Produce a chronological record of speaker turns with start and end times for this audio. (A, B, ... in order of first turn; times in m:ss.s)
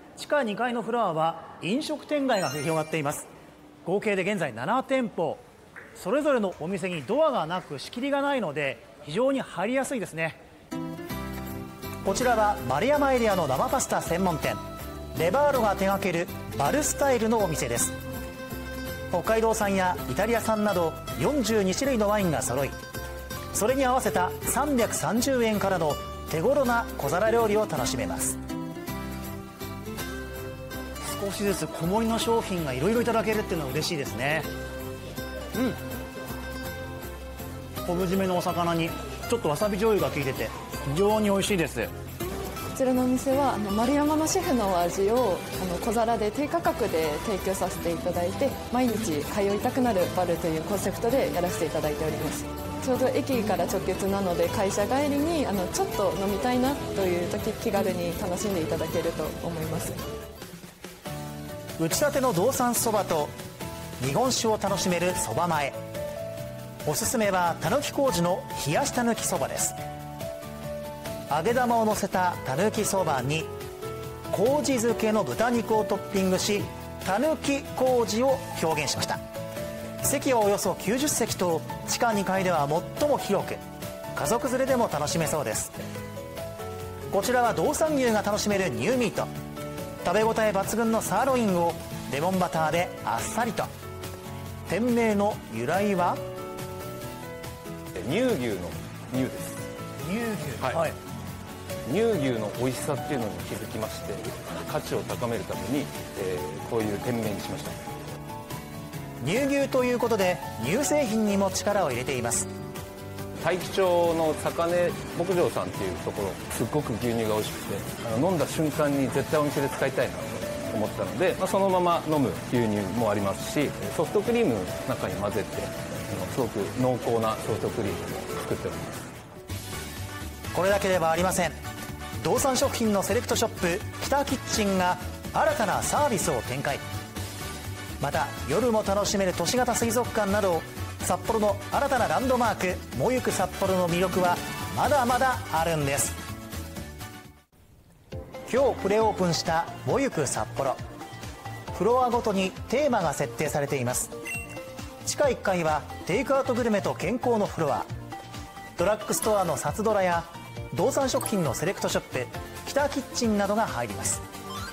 0:00.2-0:03.3 A
0:03.8-0:05.4 A
0:06.0-0:10.4 A
0:12.0-0:14.6 A
0:15.1-0:17.9 A
0:19.1-0:22.7 A
0:23.5-0:28.4 A
0:31.0-0:34.5 A
0:37.9-0:41.9 A
0:42.7-1:00.0 B
1:01.8-1:03.3 A
1:04.0-1:05.8 A
1:06.9-1:09.8 A
1:11.3-1:13.5 A
1:14.3-1:19.2 A
1:20.0-1:23.6 A
1:24.1-1:25.7 A
1:27.1-1:29.3 A
1:30.0-1:33.7 A
1:34.7-1:36.2 A
1:38.0-1:39.6 C
1:40.0-1:40.9 A
1:41.9-1:47.8 C
1:49.2-1:52.5 A
1:53.4-2:09.1 C
2:10.5-2:11.6 A
2:12.2-2:16.8 A
2:18.0-2:26.1 A
2:28.5-2:30.8 A
2:31.7-2:34.1 A
2:35.0-2:37.9 A
2:38.8-2:44.2 A